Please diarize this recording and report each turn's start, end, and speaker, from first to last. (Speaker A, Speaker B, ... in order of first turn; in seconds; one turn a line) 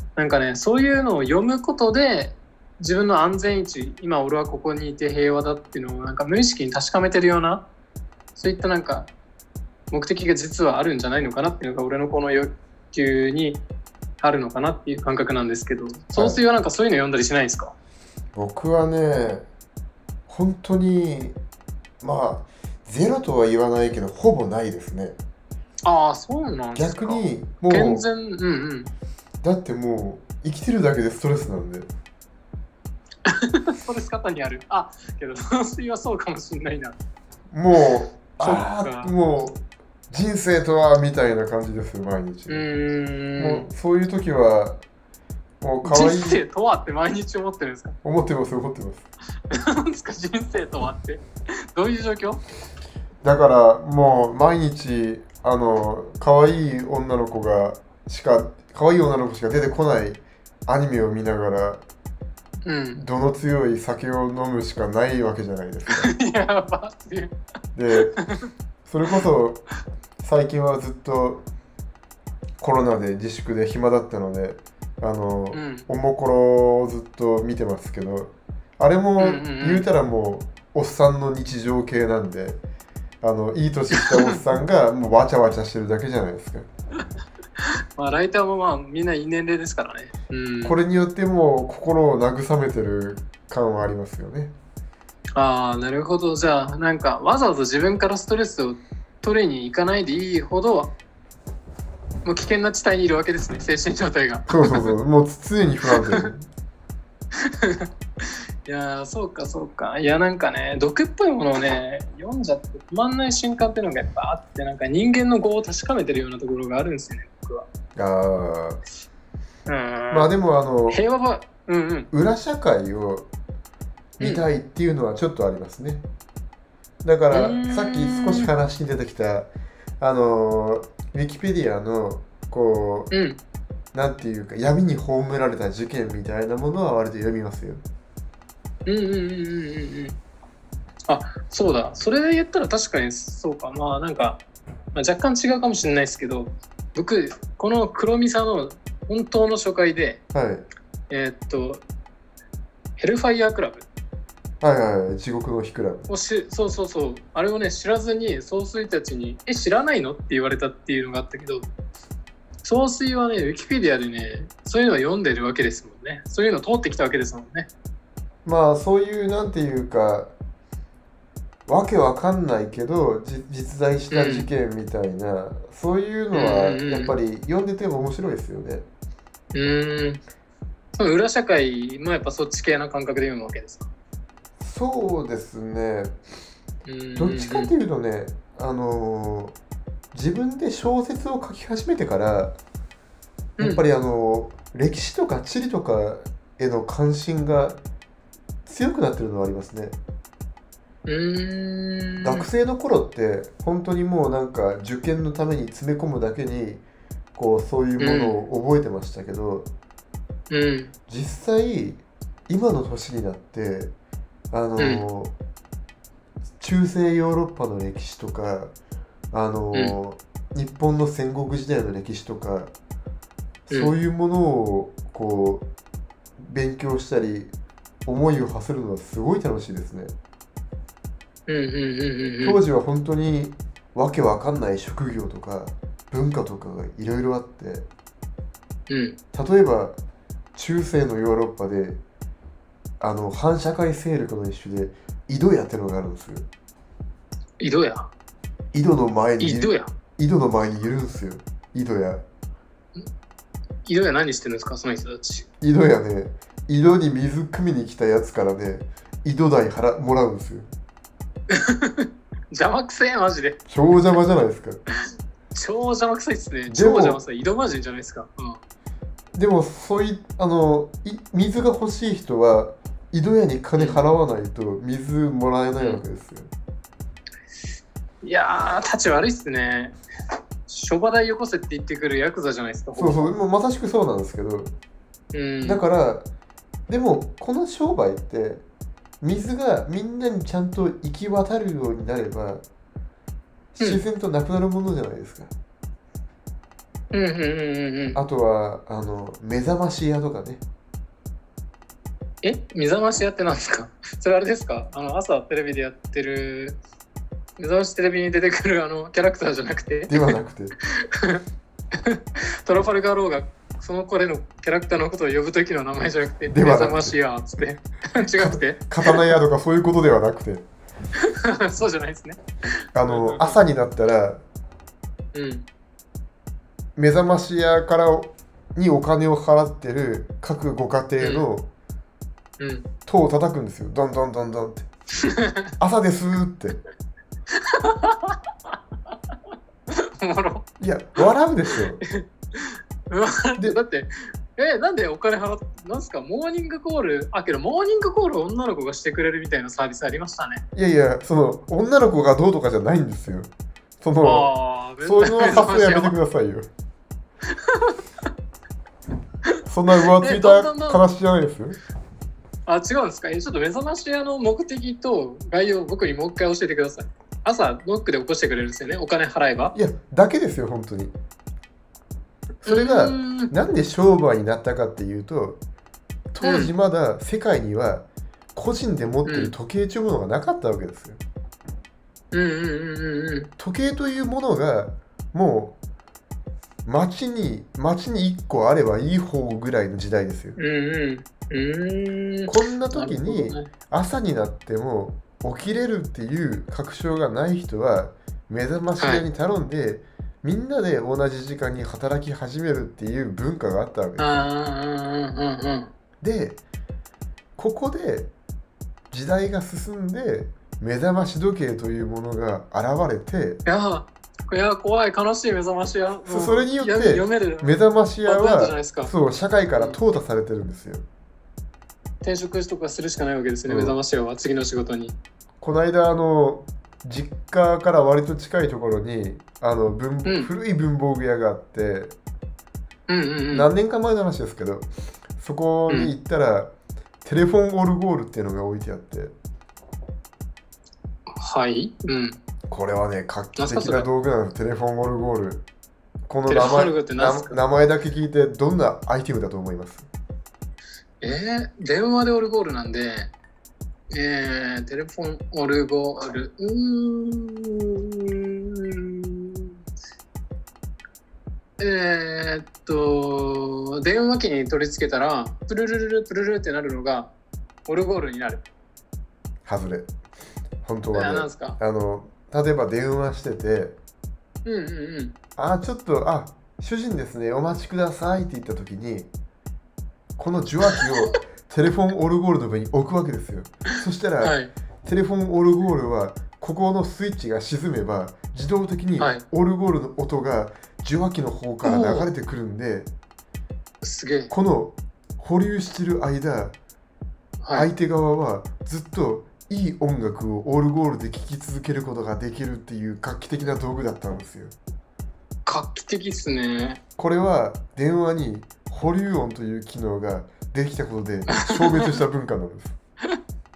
Speaker A: 0.2-7.7
Speaker A: 8.4-9.1
Speaker A: 9.9-13.6
Speaker A: 14.2-17.7
Speaker B: 16.2-16.4
Speaker B: 18.4-19.5
Speaker B: 20.3-21.4
Speaker B: 22.0-25.2
Speaker A: 25.8-28.9
Speaker B: 26.8-28.1
Speaker B: 29.4-31.9
Speaker A: 33.3-37.0
Speaker B: 37.5-42.6
Speaker A: 38.4-39.1
Speaker A: 42.5-43.7
Speaker B: 43.4-44.8
Speaker B: 45.6-46.4
Speaker A: 45.8-48.0
Speaker B: 48.0-49.1
Speaker A: 49.5-52.4
Speaker B: 53.2-61.8
Speaker A: 62.7-63.0
Speaker B: 63.0-66.1
Speaker A: 65.9-67.3
Speaker B: 67.8-68.2
Speaker A: 68.1-68.5
Speaker B: 68.8-69.6
Speaker B: 70.2-71.4
Speaker B: 72.6-82.6
Speaker A: 75.5-75.9
Speaker A: 79.2-79.9
Speaker B: 83.2-86.7
Speaker A: 84.0-84.4
Speaker A: 88.0-90.8
Speaker B: 90.6-94.5
Speaker A: 95.4-100.9
Speaker A: 102.2-104.9
Speaker B: 104.5-106.5
Speaker A: 107.4-107.9
Speaker A: 108.7-117.7
Speaker B: 118.0-118.8
Speaker A: 119.7-120.3
Speaker B: 120.1-121.0
Speaker A: 120.9-122.1
Speaker B: 122.1-123.3
Speaker B: 124.2-126.1
Speaker A: 124.2-124.5
Speaker B: 127.0-133.1
Speaker A: 127.3-128.5
Speaker A: 133.1-133.4
Speaker B: 133.9-137.8
Speaker A: 138.9-140.2
Speaker A: 141.1-144.4
Speaker A: 144.9-150.2
Speaker B: 150.3-150.7
Speaker A: 151.1-151.8
Speaker A: 153.0-153.9
Speaker B: 154.6-156.1
Speaker A: 156.1-161.7
Speaker A: 162.6-167.7
Speaker B: 168.4-170.3
Speaker B: 171.7-178.9
Speaker A: 174.1-174.5
Speaker A: 176.3-177.2
Speaker A: 179.5-180.2
Speaker A: 181.0-183.9
Speaker B: 184.6-186.1
Speaker A: 186.9-187.7
Speaker B: 187.2-189.6
Speaker B: 190.1-192.6
Speaker A: 193.6-193.9
Speaker B: 193.6-197.8
Speaker B: 198.7-200.0
Speaker A: 201.1-202.5
Speaker B: 202.2-206.8
Speaker B: 207.3-209.7
Speaker A: 208.0-208.5
Speaker A: 210.5-210.9
Speaker B: 211.1-213.9
Speaker B: 214.5-215.3
Speaker A: 214.8-215.1
Speaker B: 216.6-218.7
Speaker B: 219.3-222.7
Speaker B: 223.7-225.7
Speaker B: 226.4-227.5
Speaker B: 228.1-230.1
Speaker A: 231.5-232.6
Speaker B: 232.4-237.9
Speaker A: 238.9-239.2
Speaker B: 239.3-240.0
Speaker B: 240.6-242.0
Speaker B: 243.0-246.5
Speaker A: 247.6-248.1
Speaker B: 248.7-252.2
Speaker A: 249.4-249.9
Speaker A: 253.8-255.5
Speaker B: 255.6-260.7
Speaker A: 261.5-263.6
Speaker B: 263.7-264.8
Speaker A: 265.5-268.6
Speaker B: 266.7-267.2
Speaker B: 269.4-276.5
Speaker A: 273.8-274.1
Speaker A: 278.2-280.0
Speaker A: 280.7-283.3
Speaker B: 283.0-284.8
Speaker A: 285.3-285.8
Speaker B: 285.6-286.3
Speaker B: 286.9-288.6
Speaker B: 289.2-292.6
Speaker B: 293.8-295.5
Speaker A: 297.1-298.2
Speaker B: 298.1-300.6
Speaker A: 302.4-306.8
Speaker A: 307.6-310.2
Speaker B: 310.1-310.8
Speaker A: 311.0-311.4
Speaker A: 312.0-319.2
Speaker B: 316.5-317.1
Speaker B: 318.4-320.6
Speaker A: 321.3-322.4
Speaker B: 322.9-324.4
Speaker A: 323.0-323.6
Speaker A: 325.3-325.7
Speaker B: 327.0-331.7
Speaker A: 331.2-331.5
Speaker A: 332.6-332.9
Speaker B: 333.1-334.9
Speaker A: 335.2-335.7
Speaker B: 335.8-336.8
Speaker A: 337.7-338.4
Speaker A: 340.2-340.7
Speaker B: 340.8-342.0
Speaker A: 342.1-350.6
Speaker B: 350.7-353.5
Speaker B: 354.0-356.7
Speaker A: 354.2-356.2
Speaker A: 357.5-358.0
Speaker B: 359.7-361.8
Speaker A: 360.0-361.0
Speaker A: 362.7-369.8
Speaker B: 369.7-371.1
Speaker B: 372.6-375.6
Speaker A: 372.6-373.5
Speaker B: 376.3-381.2
Speaker A: 376.4-376.7
Speaker A: 379.2-379.6
Speaker A: 382.3-383.5
Speaker B: 383.6-385.8
Speaker B: 386.9-390.6
Speaker A: 390.6-393.7
Speaker B: 392.5-404.4
Speaker A: 399.0-399.2
Speaker A: 404.2-405.9
Speaker B: 406.2-406.6
Speaker B: 407.6-408.3
Speaker B: 409.1-413.6
Speaker A: 413.6-419.1
Speaker B: 416.3-421.0
Speaker A: 422.2-425.2
Speaker B: 423.7-424.0
Speaker B: 425.6-432.2
Speaker A: 430.2-430.5
Speaker A: 433.1-433.7
Speaker B: 433.5-436.7
Speaker A: 435.9-436.1
Speaker B: 437.2-439.4
Speaker A: 441.4-442.4
Speaker B: 442.7-445.6
Speaker A: 443.6-444.1
Speaker B: 446.3-450.1
Speaker A: 446.5-447.6
Speaker A: 451.2-453.3
Speaker A: 454.1-459.6
Speaker A: 461.8-467.3
Speaker A: 467.9-468.6
Speaker B: 469.7-470.1
Speaker B: 470.8-474.0
Speaker A: 471.1-471.8
Speaker A: 474.6-475.3
Speaker B: 475.6-479.3
Speaker B: 480.4-493.1
Speaker A: 484.4-484.7
Speaker A: 489.2-489.4
Speaker A: 491.8-492.3
Speaker A: 494.0-494.5
Speaker B: 494.5-496.8
Speaker A: 497.6-497.9
Speaker B: 497.7-504.8
Speaker A: 505.7-507.0
Speaker B: 507.2-513.0
Speaker A: 511.7-512.2